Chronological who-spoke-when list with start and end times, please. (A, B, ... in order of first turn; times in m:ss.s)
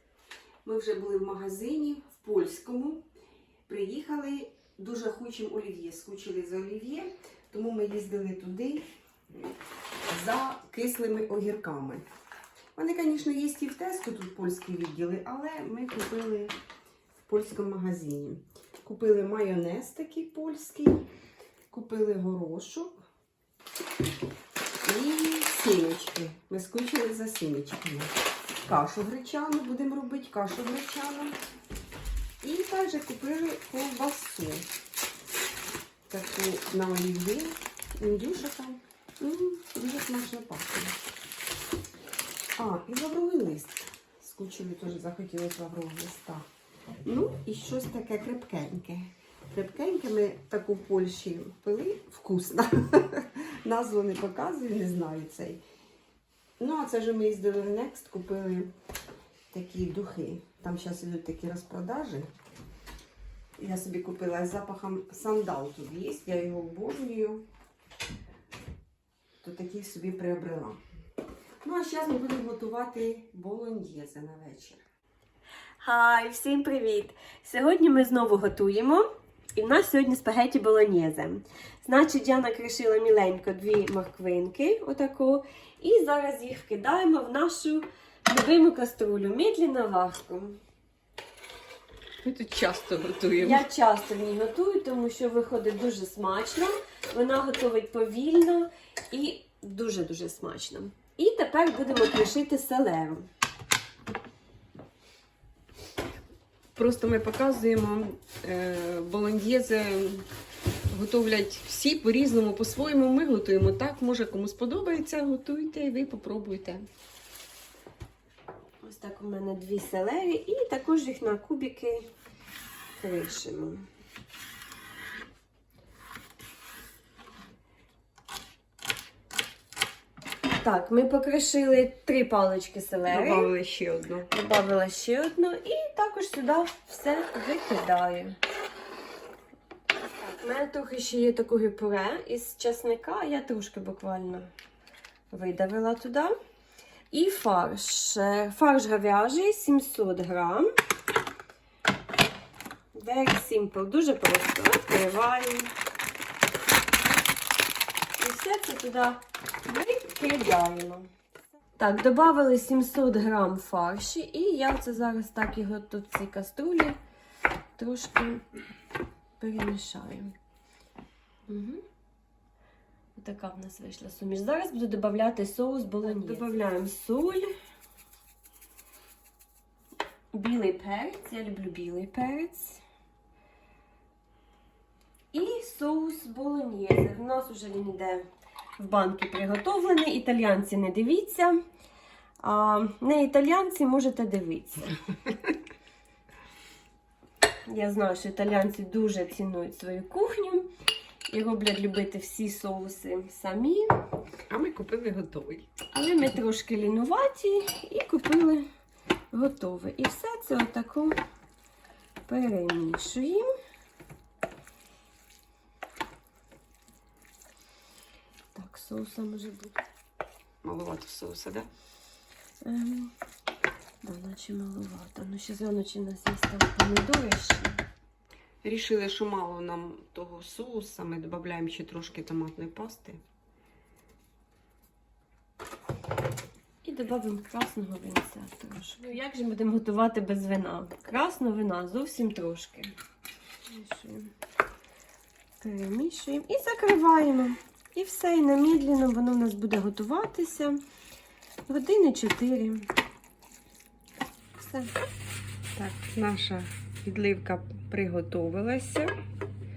0:00.6-0:03.0 A
0:03.7-0:08.8 A
0:10.1-0:12.0 A
0:12.8-0:16.5 A
0:17.2-0:21.0 A
0:21.7-0:23.0 A
0:24.8-0:28.1 A
0:28.6-0:31.4 A
0:32.4-0:34.7 A
0:36.1-0:41.0 A
0:42.6-0:46.4 A
0:47.0-0:55.6 A
0:56.6-0:58.7 A
0:59.5-1:02.3 A
1:03.6-1:07.4 A
1:09.4-1:10.8 A
1:11.6-1:14.8 A
1:15.8-1:30.6 B
1:32.2-1:33.6 A
1:33.4-1:43.3 B
1:46.7-1:50.3 A
1:50.9-1:56.8 A
1:58.8-2:02.1 B
2:03.0-2:03.9 B
2:10.5-2:13.5 B
2:13.1-2:14.3 A
2:14.3-2:18.4 B
2:20.4-2:24.5 B
2:25.3-2:26.3 B
2:27.1-2:30.7 B
2:32.9-2:35.7 B
2:38.2-2:41.1 B
2:41.8-2:47.0 B
2:47.8-2:48.4 B
2:49.4-2:50.3 B
2:51.5-2:51.8 B
2:53.2-2:57.5 B
2:56.0-2:56.6 A
3:00.3-3:02.8 B
3:05.3-3:08.2 B
3:08.8-3:11.6 B
3:12.4-3:15.0 B
3:17.7-3:20.7 B
3:21.3-3:24.0 B
3:24.5-3:25.7 A
3:25.9-3:28.6 B
3:29.3-3:31.2 B
3:32.3-3:33.5 B
3:38.5-3:39.8 B
3:40.6-3:41.7 A
3:42.6-3:43.1 B
3:44.0-3:47.8 B
3:48.6-3:53.2 A
3:56.8-4:02.9 B
4:03.7-4:04.3 B
4:05.6-4:10.8 B
4:11.7-4:12.9 B
4:14.6-4:15.0 B
4:15.8-4:19.1 A